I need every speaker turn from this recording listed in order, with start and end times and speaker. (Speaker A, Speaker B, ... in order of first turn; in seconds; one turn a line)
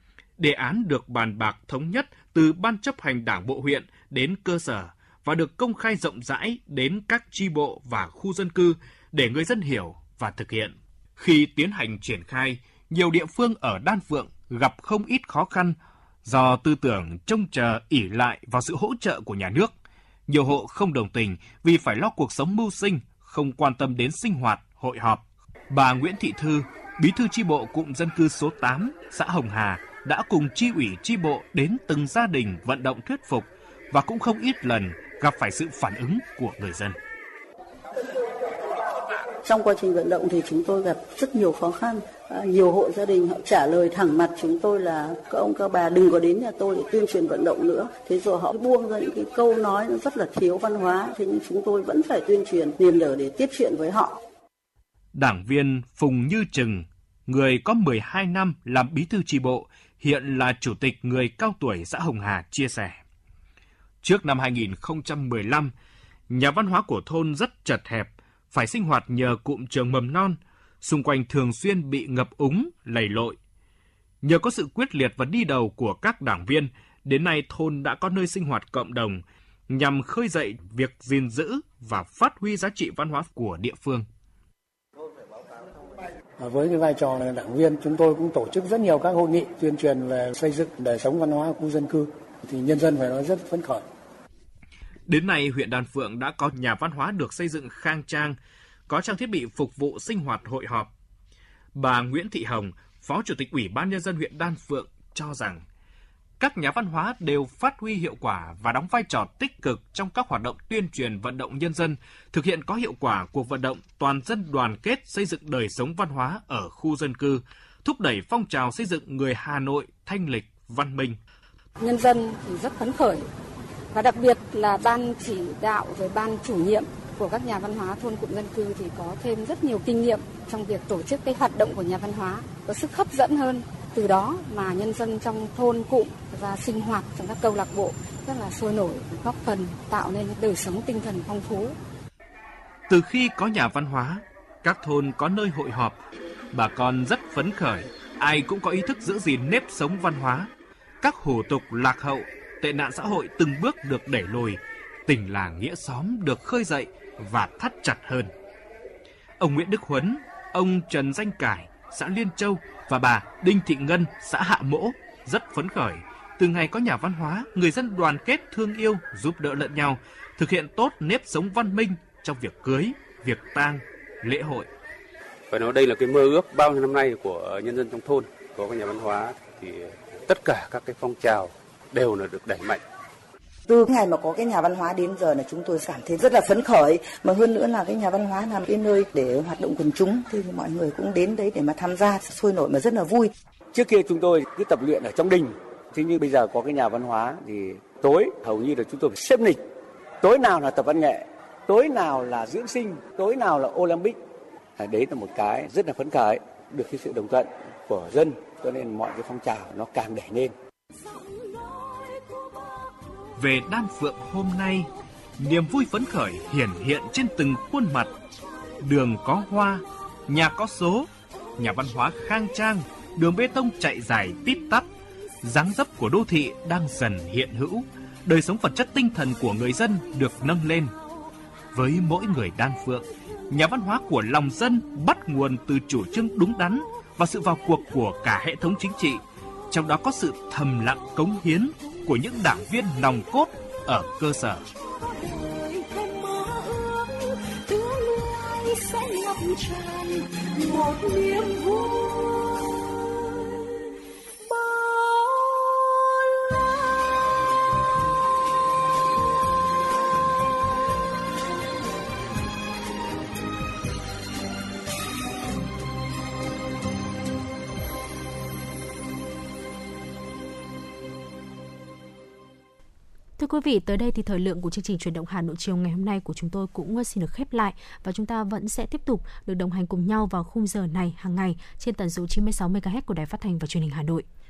Speaker A: 0.4-19.7
Speaker A: 20.3-37.0
Speaker B: 39.5-54.1
Speaker A: 55.1-63.0
Speaker A: 64.0-65.7
Speaker A: 66.3-73.4
Speaker A: 74.2-84.1
Speaker C: 86.4-93.8
Speaker A: 95.1-98.4
Speaker A: 98.9-100.9
Speaker A: 101.7-105.6
Speaker A: 106.4-121.2
Speaker D: 121.8-123.3
Speaker D: 123.9-141.8
Speaker A: 142.9-146.0
Speaker A: 146.5-150.5
Speaker A: 151.0-158.3
Speaker A: 159.4-174.7
Speaker E: 183.7-193.3
Speaker F: 193.7-199.6
Speaker F: 200.2-204.2
Speaker F: 204.8-210.5
Speaker A: 213.4-218.1
Speaker A: 218.8-224.9
Speaker A: 225.4-230.9
Speaker A: 231.7-244.6
Speaker G: 245.0-253.8
Speaker G: 254.4-257.3
Speaker H: 273.4-284.2